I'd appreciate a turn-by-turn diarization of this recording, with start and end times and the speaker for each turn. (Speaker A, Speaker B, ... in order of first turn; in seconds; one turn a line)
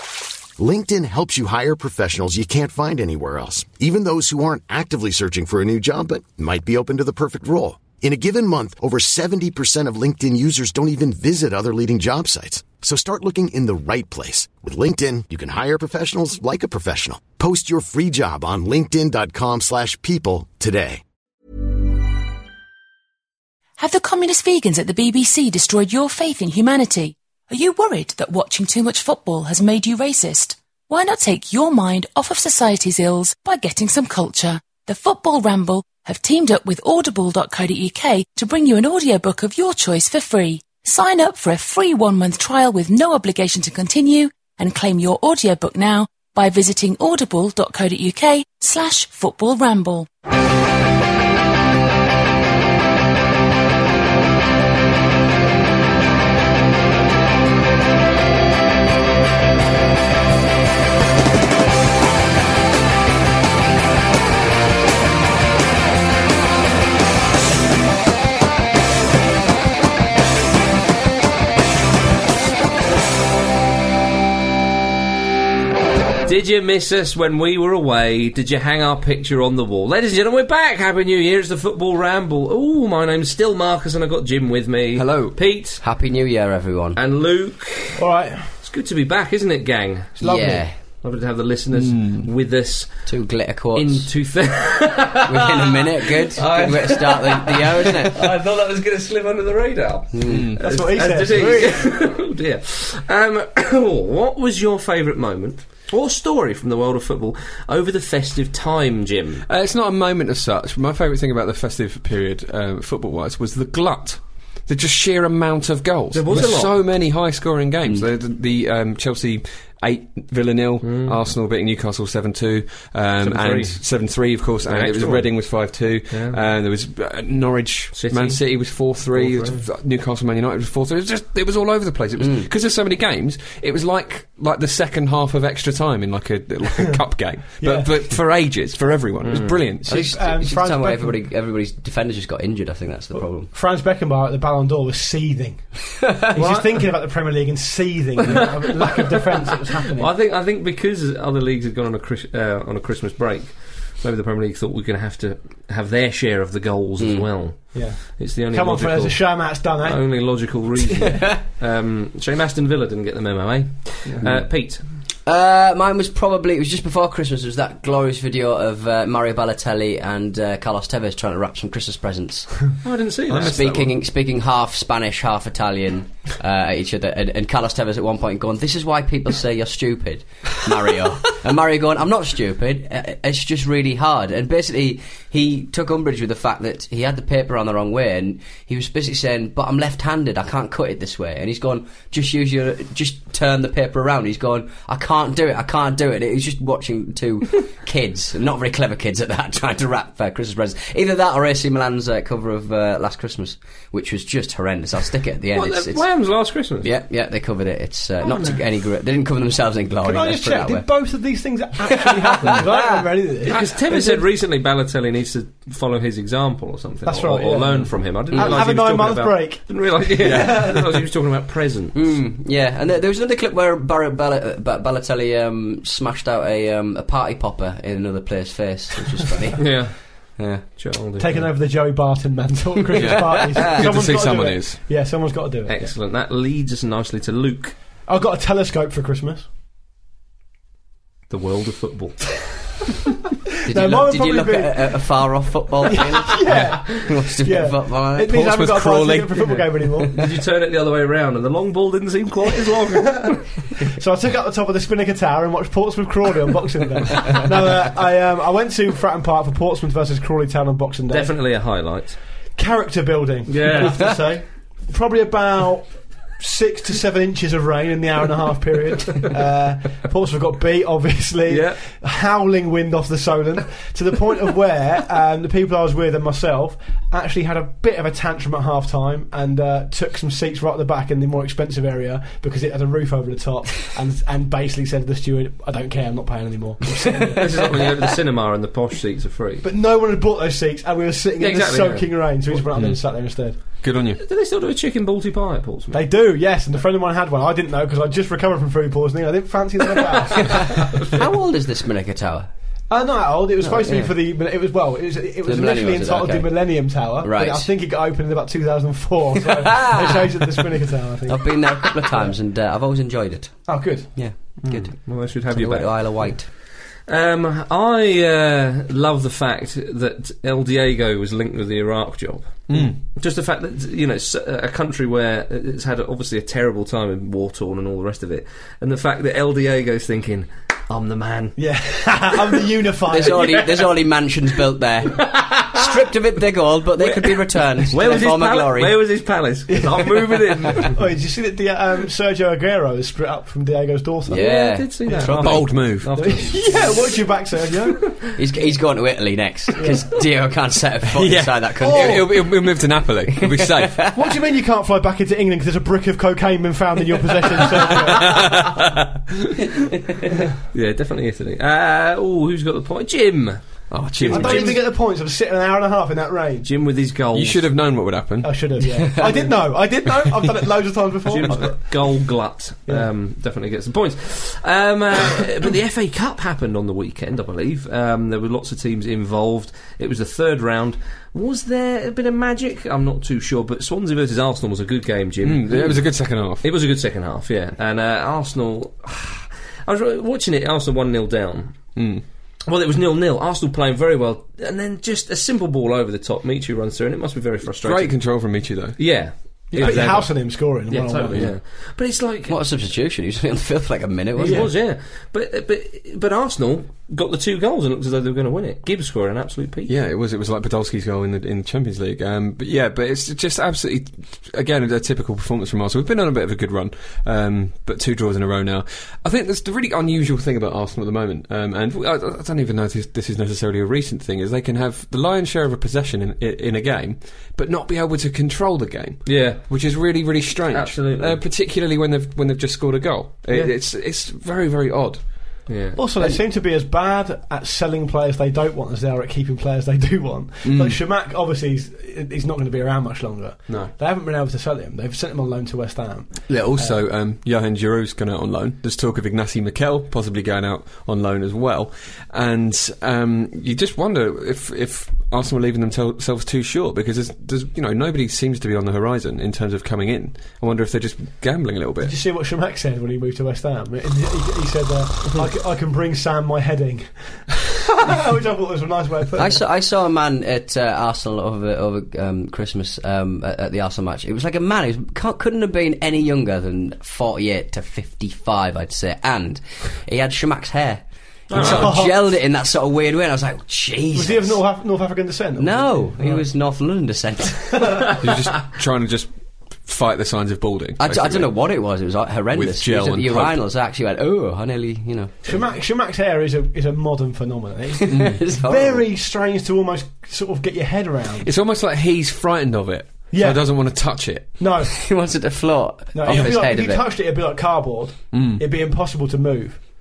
Speaker A: 0.6-21.0
Speaker B: 23.8-50.1
Speaker C: 76.2-85.8
Speaker D: 84.9-85.4
Speaker E: 85.8-87.0
Speaker C: 86.9-88.1
Speaker F: 88.0-88.5
Speaker C: 88.6-90.2
Speaker F: 90.2-90.6
Speaker E: 90.2-90.7
Speaker C: 91.0-92.9
Speaker D: 91.7-92.2
Speaker E: 93.0-94.1
Speaker C: 93.7-109.5
Speaker E: 95.2-98.2
Speaker E: 100.1-100.5
Speaker D: 100.3-100.7
Speaker F: 100.6-101.9
Speaker D: 109.5-140.1
Speaker C: 116.1-116.8
Speaker C: 120.8-121.2
Speaker C: 123.2-123.8
Speaker C: 124.7-125.3
Speaker C: 126.1-126.4
Speaker C: 127.9-129.6
Speaker E: 132.2-132.5
Speaker F: 137.6-138.1
Speaker C: 139.2-139.6
Speaker F: 139.8-141.2
Speaker E: 139.9-143.5
Speaker F: 143.2-150.1
Speaker E: 146.2-146.6
Speaker C: 148.2-149.2
Speaker C: 150.0-164.8
Speaker E: 157.0-157.3
Speaker F: 157.7-161.2
Speaker E: 165.2-172.6
Speaker C: 172.8-173.7
Speaker D: 173.3-173.9
Speaker E: 173.4-206.1
Speaker C: 205.5-206.9
Speaker E: 206.8-210.9
Speaker C: 208.2-208.6
Speaker F: 210.0-214.2
Speaker E: 211.9-213.0
Speaker C: 213.5-222.0
Speaker F: 217.1-220.9
Speaker E: 218.3-218.6
Speaker D: 220.2-220.7
Speaker E: 221.9-230.6
Speaker C: 229.6-229.9
Speaker C: 230.6-231.4
Speaker F: 231.2-235.7
Speaker D: 232.9-234.8
Speaker E: 233.5-233.8
Speaker C: 235.7-237.7
Speaker F: 238.1-239.4
Speaker C: 241.3-242.3
Speaker F: 243.7-245.0
Speaker E: 243.7-248.4
Speaker F: 245.9-250.1
Speaker C: 246.5-246.7
Speaker D: 248.2-250.0
Speaker C: 250.1-253.7
Speaker F: 253.9-261.4
Speaker C: 261.1-262.2
Speaker F: 262.5-287.7
Speaker C: 263.5-264.1
Speaker C: 271.5-271.8
Speaker C: 287.3-289.6
Speaker F: 289.6-293.6
Speaker C: 291.4-292.6
Speaker D: 293.8-294.2
Speaker C: 294.2-296.0
Speaker F: 295.9-301.2
Speaker C: 300.5-300.8
Speaker E: 301.1-302.5
Speaker F: 302.9-312.3
Speaker E: 303.6-304.1
Speaker E: 305.4-307.7
Speaker E: 309.7-310.3
Speaker E: 311.3-316.5
Speaker F: 313.7-314.2
Speaker C: 314.6-331.6
Speaker D: 322.7-323.0
Speaker F: 331.6-333.6
Speaker E: 333.1-338.9
Speaker C: 333.2-333.9
Speaker C: 335.2-335.9
Speaker C: 337.0-340.9
Speaker F: 340.8-344.5
Speaker E: 344.3-345.3
Speaker C: 344.3-347.1
Speaker F: 345.1-348.7
Speaker D: 345.4-346.3
Speaker E: 348.4-352.4
Speaker F: 349.7-350.1
Speaker D: 351.1-354.0
Speaker F: 351.8-352.3
Speaker E: 353.5-354.1
Speaker F: 354.1-358.4
Speaker D: 357.9-359.1
Speaker C: 360.7-364.8
Speaker D: 363.9-364.8
Speaker F: 364.3-366.7
Speaker C: 366.6-367.6
Speaker D: 367.3-368.7
Speaker F: 368.4-371.9
Speaker E: 368.8-369.5
Speaker C: 371.2-386.1
Speaker D: 385.4-386.6
Speaker C: 386.6-391.8
Speaker D: 391.9-392.2
Speaker C: 392.7-398.3
Speaker D: 397.8-400.3
Speaker C: 399.0-402.6
Speaker F: 399.7-401.5
Speaker E: 402.5-404.7
Speaker F: 404.4-404.7
Speaker C: 404.4-409.9
Speaker D: 409.9-435.6
Speaker C: 429.2-429.6
Speaker C: 430.7-431.4
Speaker C: 435.7-436.0
Speaker F: 435.9-447.0
Speaker D: 440.6-441.0
Speaker D: 446.5-462.1
Speaker F: 462.0-469.6
Speaker E: 469.3-484.6
Speaker C: 481.5-481.9
Speaker F: 481.5-482.2
Speaker F: 484.1-486.4
Speaker E: 485.6-487.8
Speaker D: 488.2-491.5
Speaker E: 491.0-495.6
Speaker D: 492.5-493.6
Speaker F: 495.4-501.5
Speaker E: 498.0-499.0
Speaker D: 498.1-498.4
Speaker D: 501.4-504.6
Speaker F: 503.3-505.0
Speaker E: 505.0-507.1
Speaker F: 506.1-509.8
Speaker D: 506.3-506.5
Speaker D: 508.3-508.6